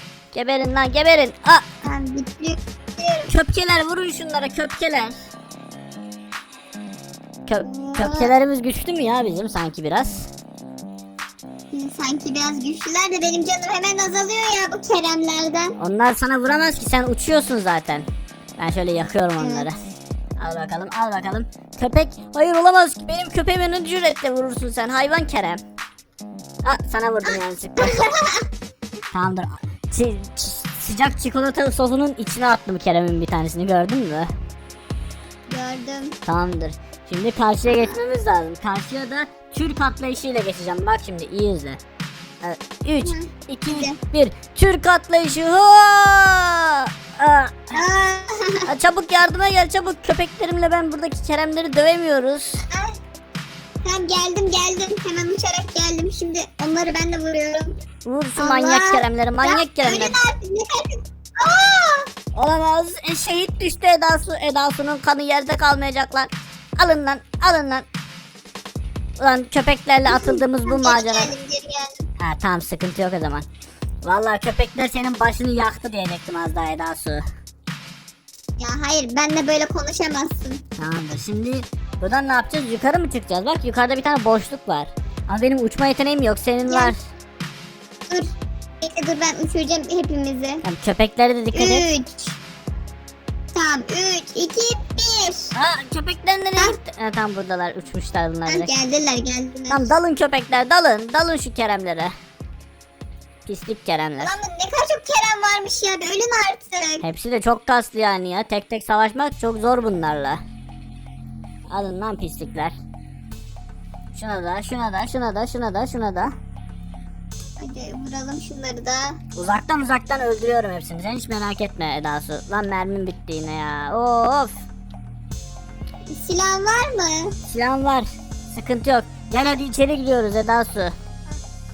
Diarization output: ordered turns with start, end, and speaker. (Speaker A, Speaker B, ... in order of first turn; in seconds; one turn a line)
Speaker A: 0.3-1.6
Speaker B: 1.8-3.3
Speaker A: 3.3-5.2
Speaker A: 7.5-10.3
Speaker B: 7.6-8.3
Speaker B: 11.7-15.8
Speaker A: 15.8-18.1
Speaker A: 18.6-19.9
Speaker B: 19.4-19.7
Speaker A: 20.4-25.6
Speaker A: 26.6-28.1
Speaker B: 27.8-28.4
Speaker A: 29.1-34.3
Speaker B: 35.5-36.2
Speaker A: 36.2-41.8
Speaker B: 37.7-38.0
Speaker A: 42.4-47.7
Speaker B: 43.0-44.0
Speaker B: 47.7-48.6
Speaker A: 48.7-52.6
Speaker B: 52.7-52.9
Speaker B: 53.8-57.7
Speaker A: 58.1-60.2
Speaker B: 58.4-62.1
Speaker A: 62.3-67.8
Speaker A: 69.2-71.3
Speaker B: 70.0-72.0
Speaker A: 72.2-73.5
Speaker A: 74.0-77.2
Speaker B: 78.6-80.6
Speaker A: 80.8-87.1
Speaker B: 86.7-86.9
Speaker B: 88.8-90.6
Speaker A: 90.6-91.9
Speaker B: 91.5-92.4
Speaker B: 93.5-95.5
Speaker A: 95.5-98.7
Speaker B: 98.5-99.9
Speaker A: 99.7-102.1
Speaker A: 103.5-104.4
Speaker B: 104.2-107.0
Speaker A: 107.0-110.4
Speaker A: 111.7-112.8
Speaker A: 114.1-116.3
Speaker B: 117.6-119.2
Speaker A: 119.3-124.6
Speaker B: 126.1-127.3
Speaker A: 127.5-130.9